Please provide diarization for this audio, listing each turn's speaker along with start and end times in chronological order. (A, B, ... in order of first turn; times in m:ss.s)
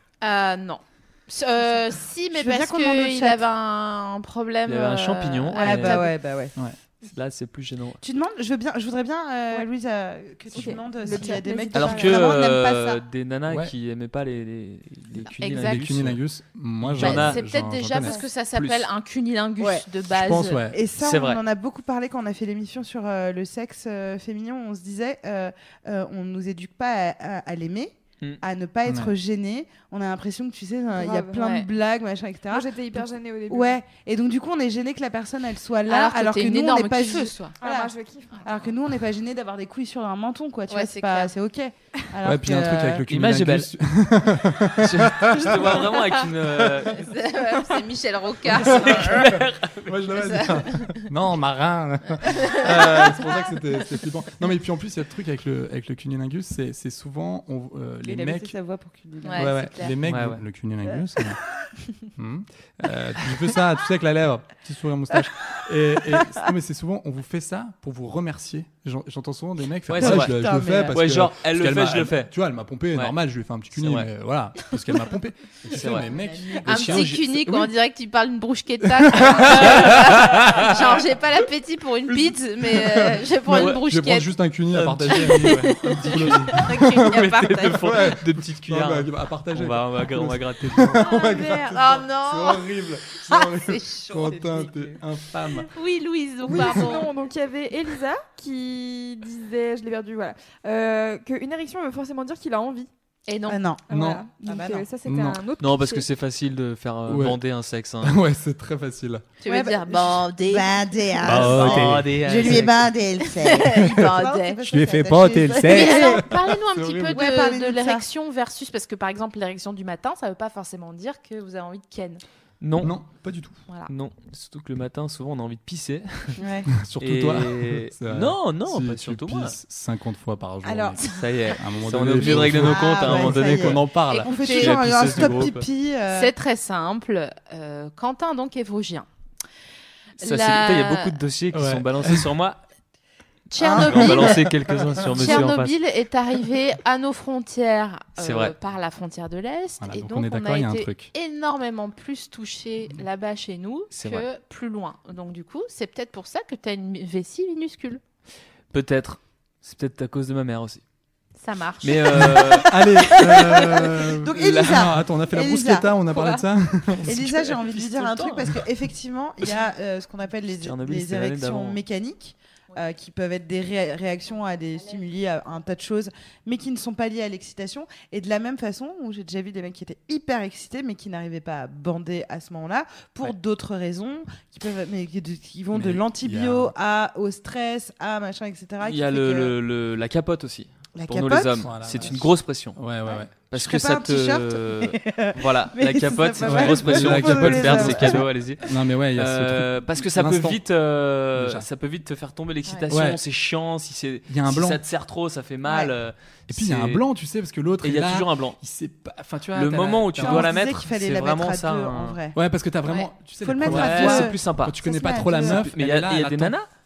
0:00.2-0:06.1 A
0:02.3-0:03.4 B
0:04.7-0:06.0 C
0:05.6-0:06.5 B
0:07.0-0:08.0 C
0:08.0-0:13.0 B
0:10.5-0:12.4 D
0:11.7-0:16.2 C
0:13.5-0:13.7 E
0:15.4-0:15.9 A
0:15.6-0:18.2 E
0:16.8-0:17.4 C
0:17.0-0:20.6 A
0:18.6-0:18.8 C
0:19.6-0:19.8 B
0:20.1-0:20.8 E
0:20.7-0:43.0 B
0:21.0-0:21.4 C
0:28.8-0:29.1 E
0:30.9-0:31.5 D
0:31.4-0:31.6 A
0:32.5-0:33.7 D
0:35.9-0:37.5 A
0:37.6-0:38.5 D
0:40.7-0:41.3 A
0:42.2-0:46.0 E
0:43.1-0:43.7 C
0:44.7-0:47.1 C
0:45.8-0:46.2 A
0:46.8-0:49.3 A
0:48.5-0:58.5 E
0:48.6-0:50.4 C
0:50.2-0:51.1 A
0:52.2-0:53.0 A
0:58.0-0:59.7 B
0:59.2-0:59.9 A
0:59.3-1:01.4 E
1:00.0-1:00.4 C
1:02.1-1:17.7 E
1:09.9-1:10.3 C
1:10.0-1:11.0 B
1:10.9-1:12.3 C
1:13.7-1:14.1 C
1:15.7-1:17.1 C
1:16.2-1:24.3 A
1:18.9-1:20.8 E
1:19.6-1:19.9 C
1:22.1-1:35.7 E
1:23.5-1:23.8 C
1:24.7-1:31.2 C
1:25.0-1:28.1 A
1:30.9-1:34.6 A
1:34.1-1:35.0 B
1:35.7-1:37.1 A
1:36.5-1:36.7 E
1:36.5-1:42.9 D
1:43.3-1:43.6 A
1:43.5-1:43.8 B
1:43.9-1:46.0 D
1:43.9-1:44.3 E
1:44.4-1:44.9 B
1:45.0-1:45.4 E
1:45.6-1:48.2 C
1:47.1-1:47.4 E
1:48.0-1:49.3 E
1:49.4-1:51.7 A
1:49.4-1:56.2 B
1:51.2-1:52.9 C
1:51.2-1:52.7 E
1:53.2-1:54.6 A
1:53.7-1:53.9 E
1:54.6-1:57.2 E
1:55.6-2:02.2 A
1:57.1-1:58.0 B
2:02.6-2:02.9 C
2:02.8-2:03.6 E
2:03.9-2:06.4 C
2:06.4-2:06.7 B
2:06.8-2:13.9 E
2:07.0-2:09.6 C
2:10.6-2:11.2 B
2:11.0-2:15.6 C
2:12.2-2:16.3 B
2:14.1-2:14.8 A
2:14.8-2:15.5 E
2:16.1-2:19.1 A
2:20.2-2:22.6 C
2:20.2-2:21.2 A
2:21.5-2:22.3 E
2:23.5-2:24.5 A
2:23.6-2:24.2 B
2:23.7-2:25.8 C
2:24.0-2:25.4 E
2:25.1-2:38.0 A
2:28.2-2:28.5 C
2:29.8-2:31.1 E
2:33.9-2:34.2 C
2:38.7-2:40.8 C
2:41.4-2:42.6 A
2:41.8-2:43.6 C
2:42.1-2:47.6 E
2:43.0-2:45.9 B
2:44.3-2:44.9 C
2:47.0-2:48.6 C
2:47.0-3:09.6 B
2:50.6-2:51.8 C
3:05.7-3:06.7 E
3:08.8-3:12.8 C
3:11.0-3:11.7 B
3:11.6-3:13.4 E
3:13.4-3:18.2 B
3:13.5-3:27.0 C
3:16.4-3:20.6 E
3:21.4-3:21.7 E
3:22.9-3:23.2 E
3:24.3-3:24.8 E
3:25.6-3:25.9 B
3:26.5-3:30.5 E
3:27.8-3:28.6 C
3:29.5-3:32.2 C
3:30.2-3:32.4 B
3:32.3-3:36.5 E
3:33.4-3:35.7 B
3:33.6-3:34.8 C
3:35.3-3:36.7 C